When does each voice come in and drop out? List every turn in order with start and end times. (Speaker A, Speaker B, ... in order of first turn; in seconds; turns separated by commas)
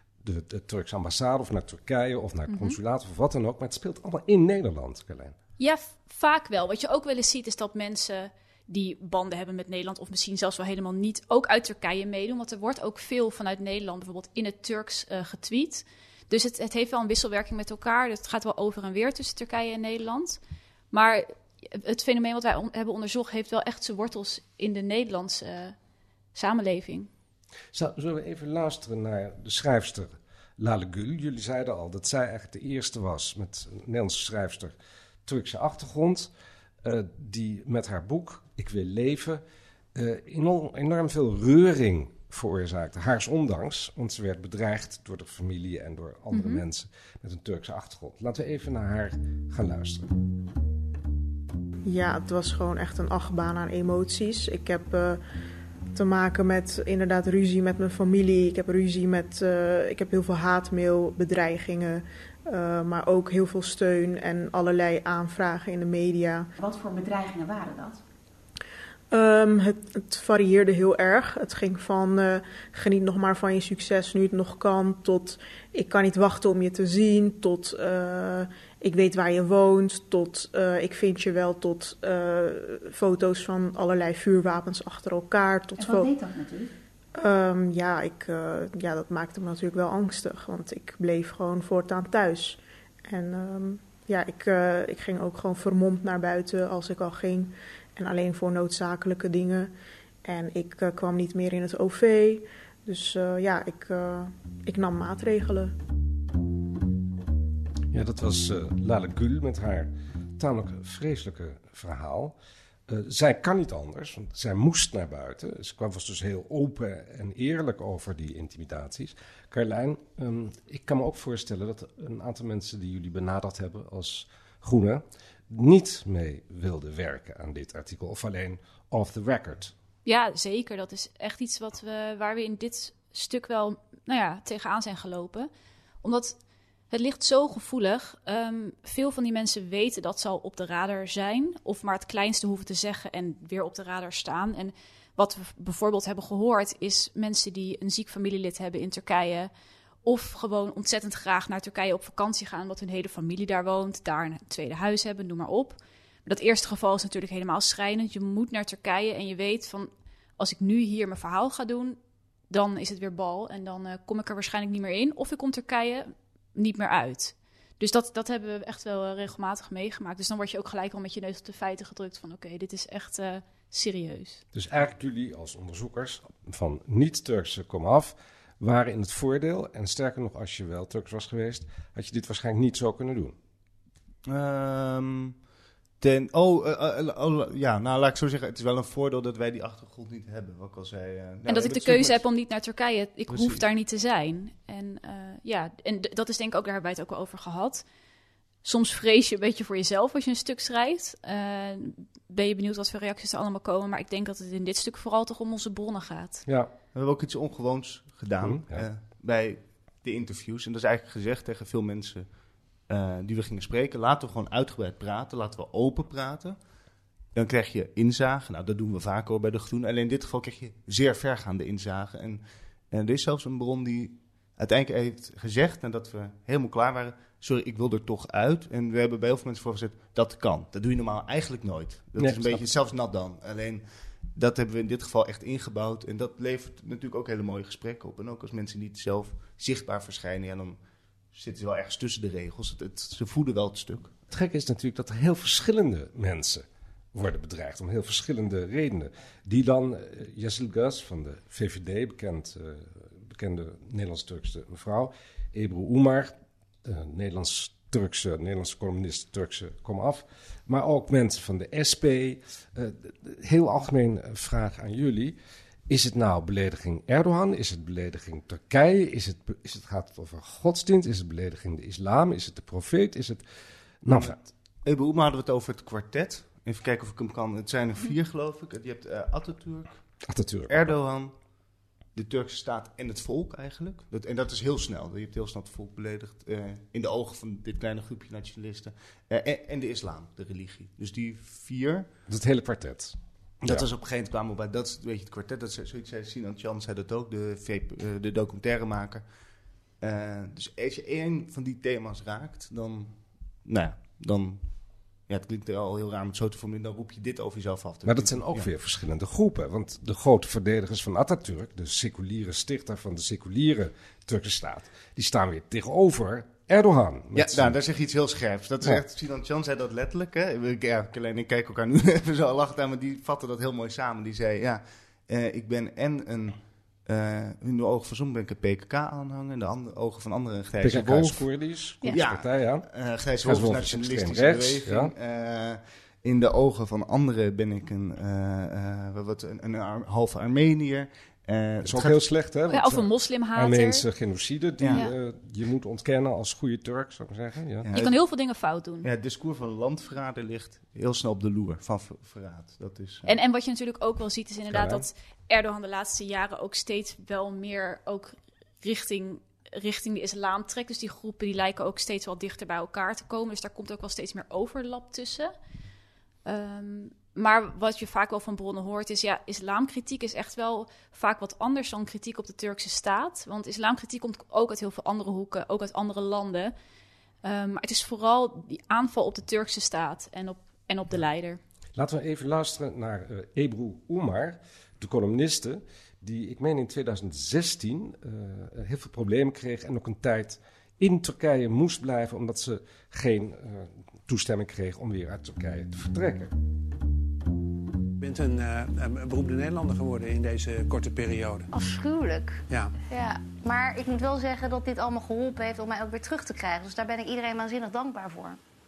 Speaker A: 0.2-5.3, Speaker B: 2.5-2.8, Speaker B: 5.6-20.4, Speaker B: 20.9-25.7, Speaker B: 26.3-27.1, Speaker A: 27.7-34.7, Speaker A: 35.2-36.3, Speaker A: 36.8-39.4, Speaker A: 39.9-50.1, Speaker B: 46.3-46.6, Speaker C: 51.9-55.2, Speaker C: 55.9-66.5, Speaker D: 66.6-68.0, Speaker C: 69.1-86.1, Speaker D: 85.8-86.7, Speaker C: 87.2-99.7, Speaker C: 100.2-105.7, Speaker A: 107.9-112.3, Speaker A: 112.9-129.7, Speaker B: 130.0-135.5, Speaker B: 136.0-136.4, Speaker B: 136.9-149.5, Speaker B: 150.0-162.0, Speaker B: 162.5-174.4, Speaker A: 174.5-183.3, Speaker E: 184.3-185.3, Speaker E: 186.0-192.2, Speaker B: 191.5-197.8, Speaker E: 193.3-193.6, Speaker B: 198.6-206.4, Speaker A: 206.4-206.7, Speaker E: 206.9-212.2, Speaker A: 208.4-208.8, Speaker E: 212.9-216.6, Speaker E: 217.3-233.8, Speaker A: 232.2-232.7, Speaker E: 234.3-240.8, Speaker E: 241.3-244.1, Speaker A: 244.3-265.4, Speaker A: 265.9-273.4, Speaker A: 274.0-274.4, Speaker E: 274.1-279.9, Speaker A: 280.2-280.9, Speaker E: 280.7-281.3, Speaker E: 282.1-292.1, Speaker A: 292.3-293.8, Speaker E: 293.6-299.2, Speaker E: 300.0-304.6, Speaker E: 305.3-308.7, Speaker A: 308.0-317.8, Speaker E: 317.3-331.5, Speaker A: 330.8-332.9, Speaker E: 332.1-342.2, Speaker A: 333.4-335.1, Speaker A: 341.8-347.9, Speaker B: 342.7-344.0, Speaker E: 347.8-348.2, Speaker B: 347.9-349.1, Speaker E: 349.0-353.3, Speaker B: 353.2-365.5, Speaker A: 354.7-355.1, Speaker B: 366.4-376.7, Speaker B: 377.4-381.6, Speaker A: 381.9-396.5, Speaker F: 398.2-401.7, Speaker G: 401.7-408.6, Speaker F: 402.7-402.9